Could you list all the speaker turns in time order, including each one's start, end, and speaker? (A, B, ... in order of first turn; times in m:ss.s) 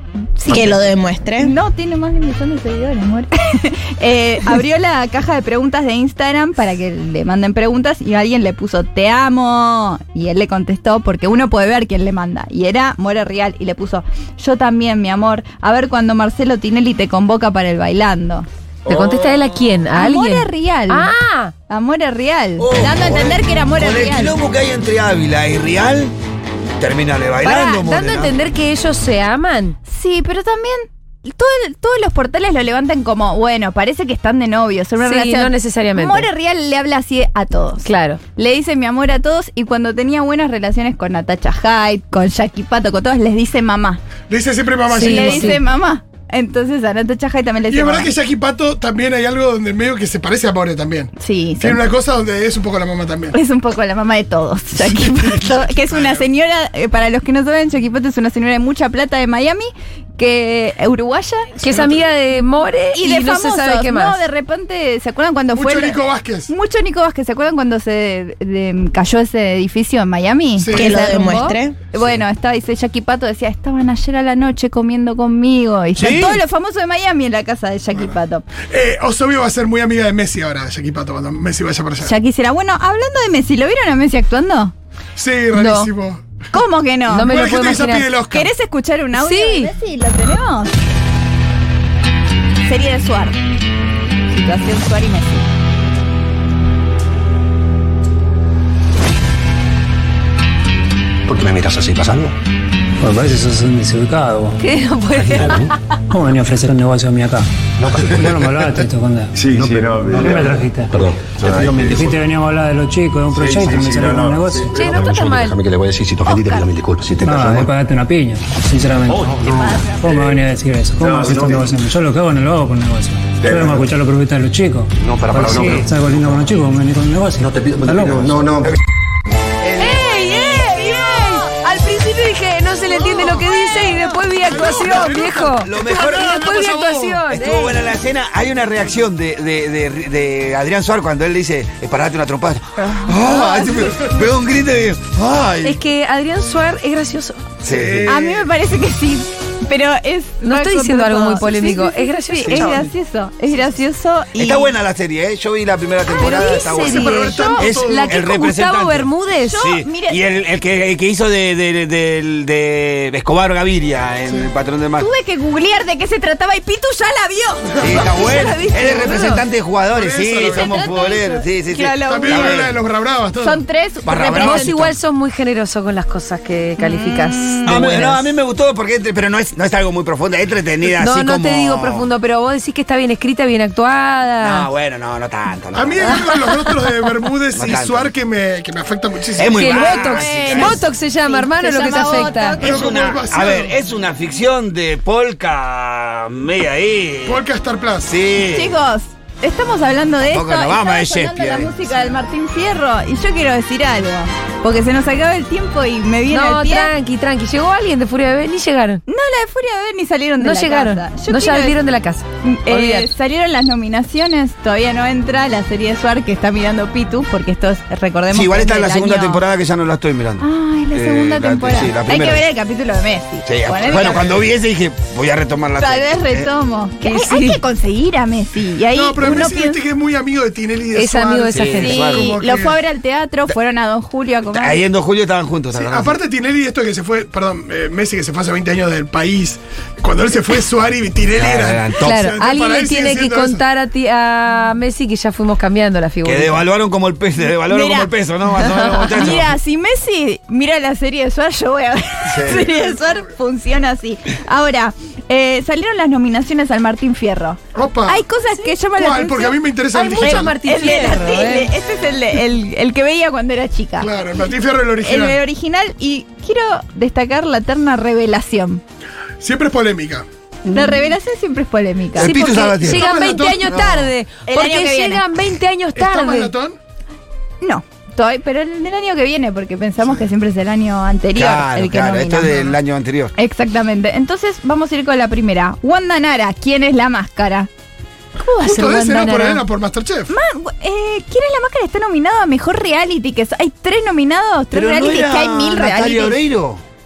0:00.4-0:00.8 A
0:00.5-0:01.5 B
0:01.4-0:18.4 A
0:18.8-0:19.8 C
0:18.9-0:21.5 D
0:19.9-0:21.1 A
0:21.7-0:24.4 A
0:22.6-0:26.1 C
0:26.8-0:28.3 C
0:27.4-0:29.8 D
0:29.9-0:44.0 A
0:35.0-0:36.3 D
0:37.8-0:38.2 D
0:44.3-0:45.6 E
0:44.9-0:45.6 D
0:44.9-0:48.1 A
0:47.7-0:53.3 E
0:51.2-0:51.8 A
0:53.3-1:01.6 A
0:54.8-0:56.3 E
1:01.6-1:04.2 D
1:01.6-1:02.0 E
1:02.9-1:18.4 A
1:05.5-1:06.5 E
1:10.6-1:11.3 E
1:10.7-1:11.8 B
1:16.0-1:16.4 D
1:18.7-1:22.2 E
1:22.0-1:24.7 A
1:25.2-1:26.2 E
1:25.5-1:25.9 D
1:26.5-1:27.3 A
1:27.1-1:28.1 D
1:27.2-1:28.5 E
1:28.3-1:30.7 A
1:29.1-1:29.7 D
1:32.6-1:33.4 A
1:34.3-1:35.5 A
1:41.3-1:42.3 F
1:43.0-1:44.6 G
1:44.6-1:45.7 D
1:45.2-1:45.7 F
1:46.1-1:49.4 G
1:47.8-1:52.2 F
1:50.0-1:54.7 G
1:53.3-1:57.7 F
1:54.7-1:55.6 D
1:57.2-2:08.4 G
1:59.1-2:00.3 F
2:01.0-2:01.9 F
2:03.4-2:03.9 F
2:05.0-2:06.5 F
2:07.4-2:08.8 F
2:09.8-2:17.8 D
2:10.6-2:11.4 A
2:12.9-2:17.2 E
2:14.7-2:15.1 A
2:15.6-2:16.4 C
2:17.3-2:25.8 C
2:22.8-2:24.2 A
2:25.6-2:27.4 D
2:27.6-2:28.2 C
2:27.7-2:28.5 E
2:28.1-2:34.7 A
2:30.4-2:32.9 D
2:32.4-2:32.8 C
2:34.4-2:45.1 C
2:36.2-2:36.8 A
2:36.2-2:39.6 D
2:36.8-2:38.2 E
2:37.4-2:37.7 A
2:39.4-2:40.2 A
2:44.2-2:44.5 E
2:45.0-2:49.4 A
2:47.8-2:52.7 C
2:49.0-2:49.4 D
2:49.8-2:51.1 E
2:50.5-2:52.7 A
2:52.0-2:53.6 E
2:53.4-2:54.7 A
2:54.0-2:55.0 C
2:54.3-2:58.3 D
2:56.8-2:58.0 A
2:57.6-3:02.1 C
3:01.0-3:04.7 D
3:04.4-3:06.3 C
3:05.7-3:10.2 E
3:07.6-3:08.1 C
3:09.4-3:10.8 C
3:09.5-3:12.6 D
3:09.6-3:12.7 A
3:12.6-3:13.7 E
3:12.6-3:17.4 C
3:17.2-3:18.1 E
3:18.1-3:18.8 C
3:18.3-3:26.9 A
3:20.3-3:21.7 C
3:26.3-3:29.0 D
3:29.1-3:31.8 A
3:30.4-3:33.1 D
3:32.4-3:39.4 A
3:38.3-3:42.5 C
3:40.4-3:44.4 A
3:43.4-3:46.5 C
3:45.8-3:49.8 A
3:47.0-3:47.6 D
3:48.9-3:52.8 E
3:50.9-3:52.1 D
3:51.5-3:52.3 C
3:51.7-3:54.8 A
3:54.5-3:56.1 C
3:55.7-4:03.6 E
4:01.3-4:02.2 C
4:02.0-4:06.7 D
4:06.2-4:09.5 C
4:07.5-4:24.1 A
4:12.3-4:12.7 C
4:17.7-4:18.3 E
4:18.5-4:18.7 D
4:18.9-4:21.0 E
4:20.2-4:21.7 D
4:24.0-4:25.4 E
4:25.0-4:28.8 A
4:29.4-4:30.2 E
4:30.6-4:32.8 A
4:30.7-4:31.0 D
4:32.2-4:34.1 C
4:32.2-4:36.5 D
4:32.8-4:33.9 E
4:34.5-4:35.2 A
4:36.0-4:36.8 E
4:37.6-4:42.7 A
4:41.3-4:43.3 C
4:43.4-4:47.7 A
4:48.4-4:49.6 A
4:48.6-4:50.3 E
4:48.6-4:49.0 D
4:50.3-4:56.4 A
4:54.7-4:56.8 C